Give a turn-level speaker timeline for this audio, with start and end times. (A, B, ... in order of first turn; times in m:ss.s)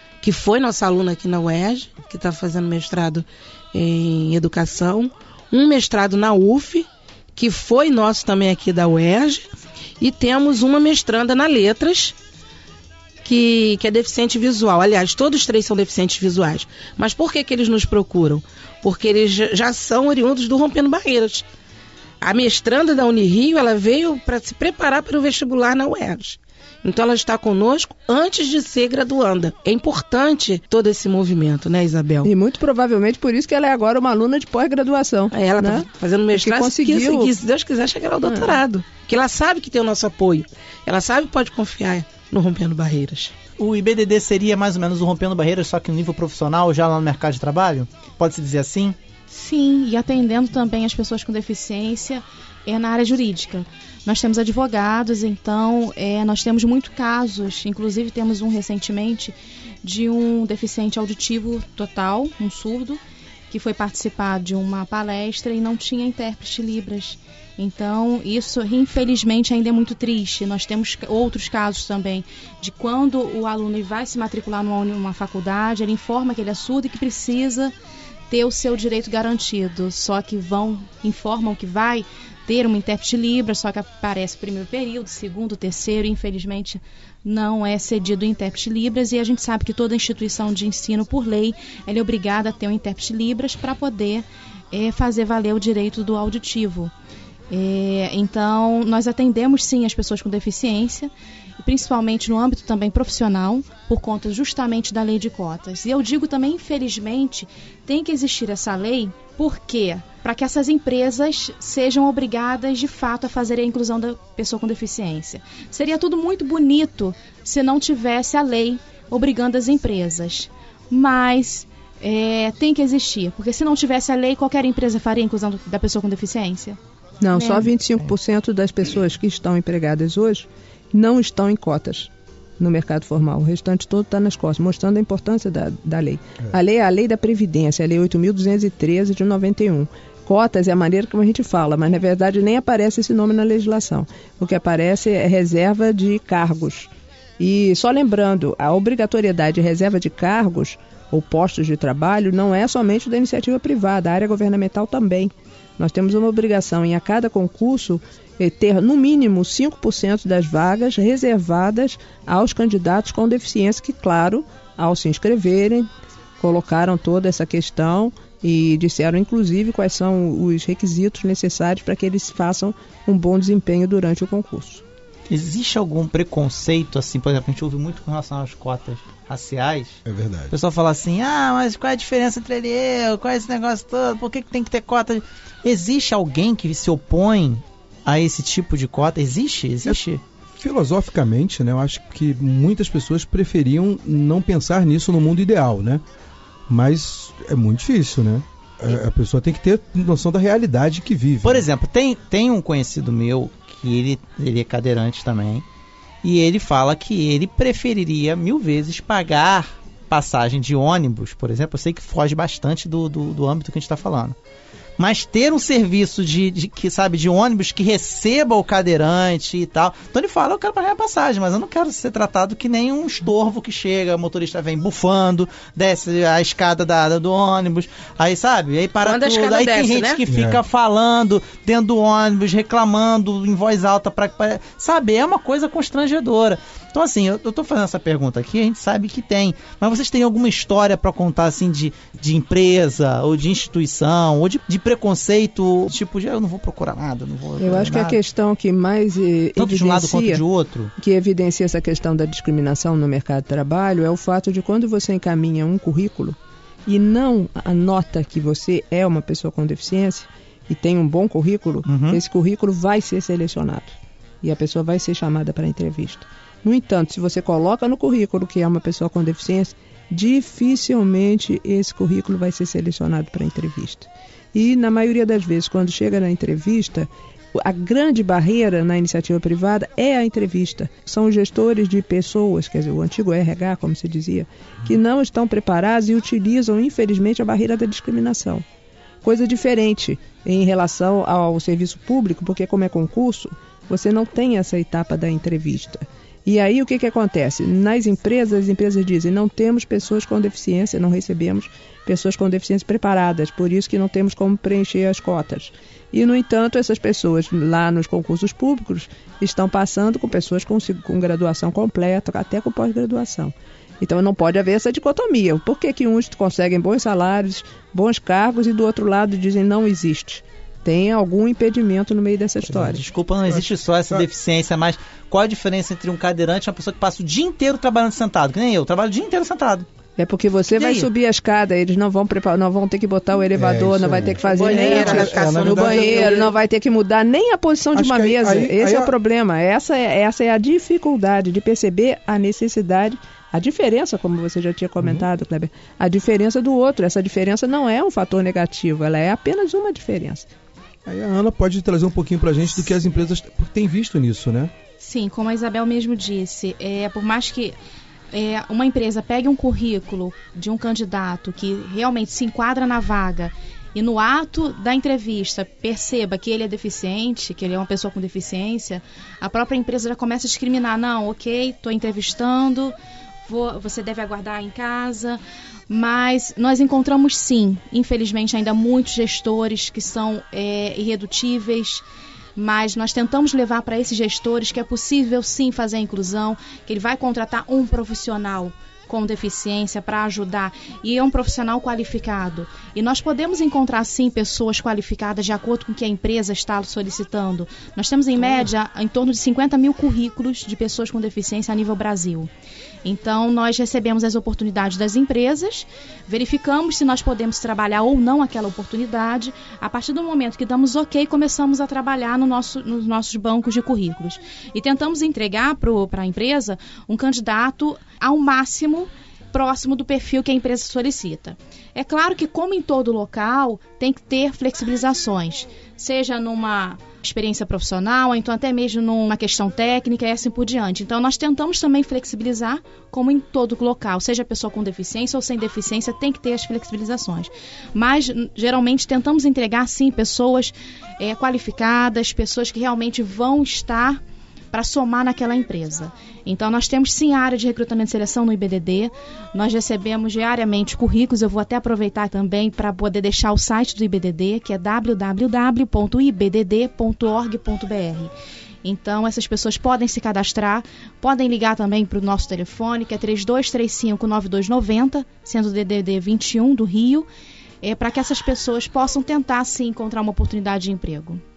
0:00.2-0:12.1 A
0:13.2-0:21.4 A
0:22.2-0:32.3 A
0:32.2-0:37.3 B
0:35.3-0:43.3 A
0:38.2-0:38.6 B
0:43.6-0:49.0 C
0:49.3-1:17.7 D
1:18.3-1:36.9 D
1:37.5-2:06.8 D
2:07.2-2:54.8 B
2:07.4-2:07.7 D
2:55.3-3:00.0 C
3:00.0-3:00.5 E
3:00.5-3:10.2 C
3:10.6-3:16.0 E
3:16.7-3:21.7 E
3:21.4-3:25.7 C
3:26.2-3:34.4 C
3:35.0-4:08.2 C
3:49.0-3:50.2 A
3:50.3-3:50.6 E
4:07.6-4:10.4 B
4:09.6-4:10.9 C
4:11.0-4:48.6 B
4:21.9-4:22.2 C
4:49.2-5:23.0 B
5:22.7-5:29.9 C
5:23.5-5:24.3 E
5:30.2-5:50.5 B
5:30.7-5:31.1 C
5:33.5-5:36.2 E
5:34.5-5:36.5 A
5:37.9-5:39.1 E
5:45.0-5:45.3 E
5:51.0-5:54.7 E
5:55.0-5:57.8 D
5:58.3-6:12.9 D
6:13.4-6:22.0 D
6:22.6-6:42.5 D
6:43.0-7:24.2 D
7:24.7-7:38.3 D
7:38.8-7:47.3 D
7:47.8-7:51.4 D